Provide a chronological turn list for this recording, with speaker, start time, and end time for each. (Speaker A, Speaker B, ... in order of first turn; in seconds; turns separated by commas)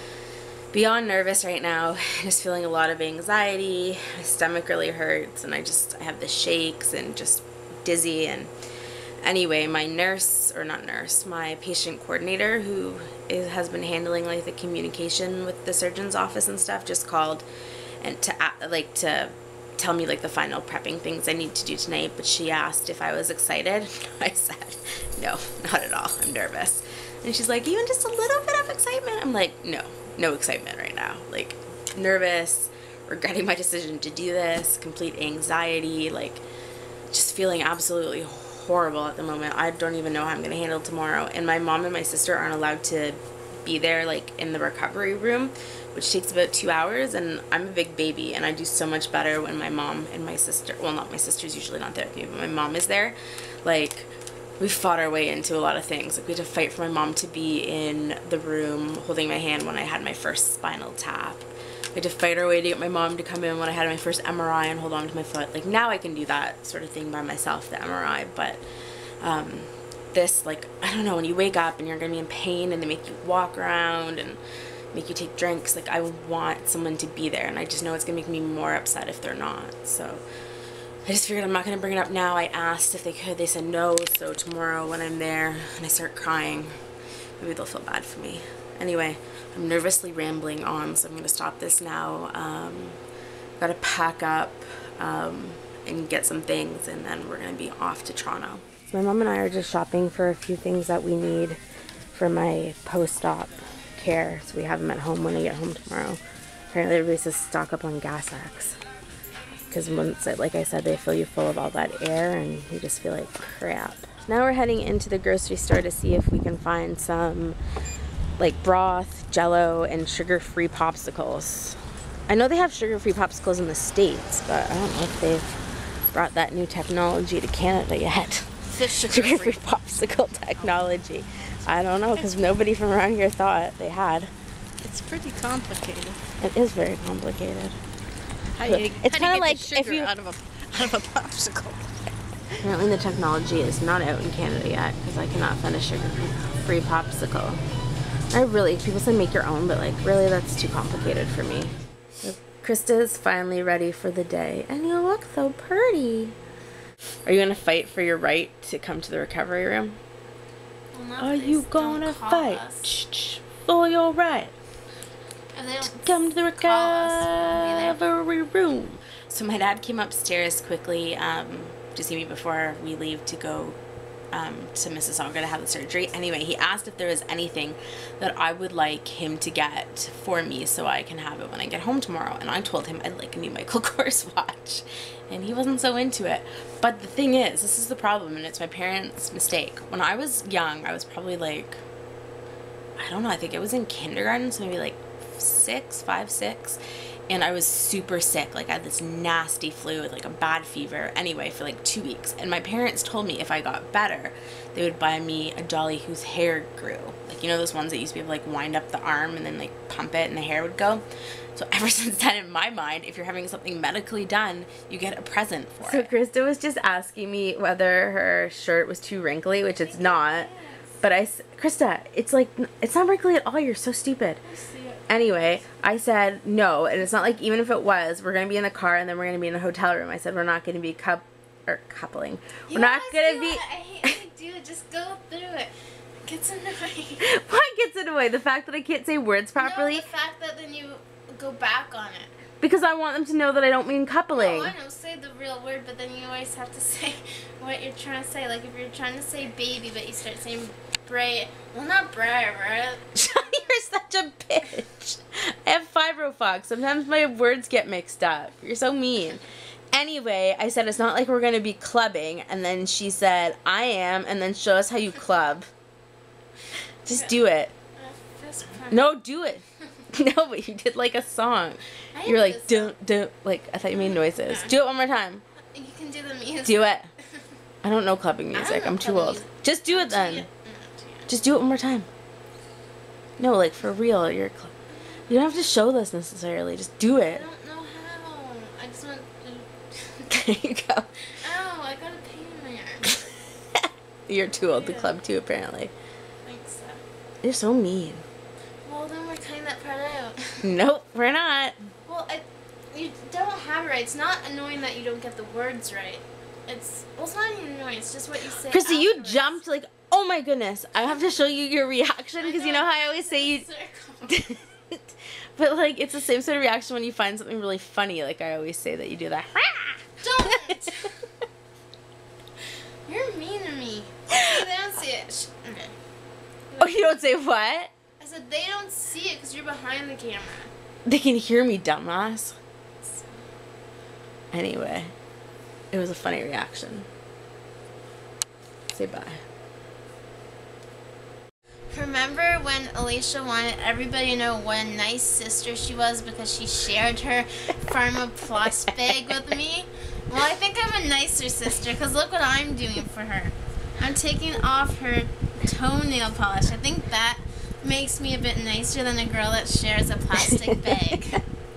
Speaker A: 0.7-8.5, Speaker A: 9.2-17.4, Speaker A: 18.0-36.4, Speaker A: 37.1-68.6, Speaker A: 69.2-74.4, Speaker A: 74.9-80.2, Speaker A: 81.0-86.7, Speaker A: 87.4-93.0, Speaker A: 93.6-101.6, Speaker A: 102.1-106.2, Speaker A: 106.7-108.8, Speaker A: 109.7-117.6, Speaker A: 118.4-125.6, Speaker A: 126.1-134.3, Speaker B: 128.8-129.5, Speaker B: 134.8-136.2, Speaker A: 136.4-137.8, Speaker B: 138.6-142.1, Speaker A: 138.6-140.1, Speaker A: 142.6-147.6, Speaker A: 148.3-156.3, Speaker A: 157.2-160.0, Speaker C: 160.9-162.9, Speaker A: 161.2-164.5, Speaker C: 165.5-168.0, Speaker A: 165.8-173.8, Speaker A: 174.3-191.8, Speaker A: 193.0-211.0, Speaker A: 211.5-220.5, Speaker C: 215.8-216.1, Speaker C: 219.8-221.0, Speaker A: 221.0-224.4, Speaker C: 224.4-225.0, Speaker A: 225.1-234.2, Speaker C: 232.7-235.7, Speaker C: 236.2-237.2, Speaker A: 237.2-240.1, Speaker C: 239.6-242.3, Speaker A: 242.6-244.7, Speaker C: 244.3-253.6, Speaker A: 253.1-265.7, Speaker A: 267.0-267.7, Speaker C: 268.0-269.1, Speaker A: 268.9-275.4, Speaker C: 272.1-272.9, Speaker C: 273.9-274.7, Speaker C: 275.7-276.9, Speaker A: 276.6-277.1, Speaker A: 277.8-280.5, Speaker C: 278.5-281.3, Speaker A: 281.3-282.1, Speaker A: 283.4-284.7, Speaker A: 285.3-287.4, Speaker C: 287.2-290.3, Speaker A: 290.3-291.1, Speaker C: 291.4-293.2, Speaker A: 294.3-295.9, Speaker C: 294.5-295.1, Speaker C: 296.4-297.0, Speaker A: 297.4-298.2, Speaker C: 298.8-300.6, Speaker A: 300.6-301.8, Speaker C: 302.1-309.6, Speaker A: 308.7-313.6, Speaker C: 312.4-314.6, Speaker A: 314.2-315.0, Speaker A: 315.6-320.8, Speaker C: 320.2-321.1, Speaker C: 323.1-325.9, Speaker A: 324.3-324.6, Speaker C: 326.7-327.2, Speaker A: 326.8-327.9, Speaker C: 328.2-330.7, Speaker A: 331.1-332.6, Speaker C: 333.0-333.4, Speaker A: 334.5-335.1, Speaker A: 335.9-337.1, Speaker A: 338.9-339.4, Speaker C: 341.9-361.4, Speaker A: 348.7-349.4, Speaker A: 360.4-361.4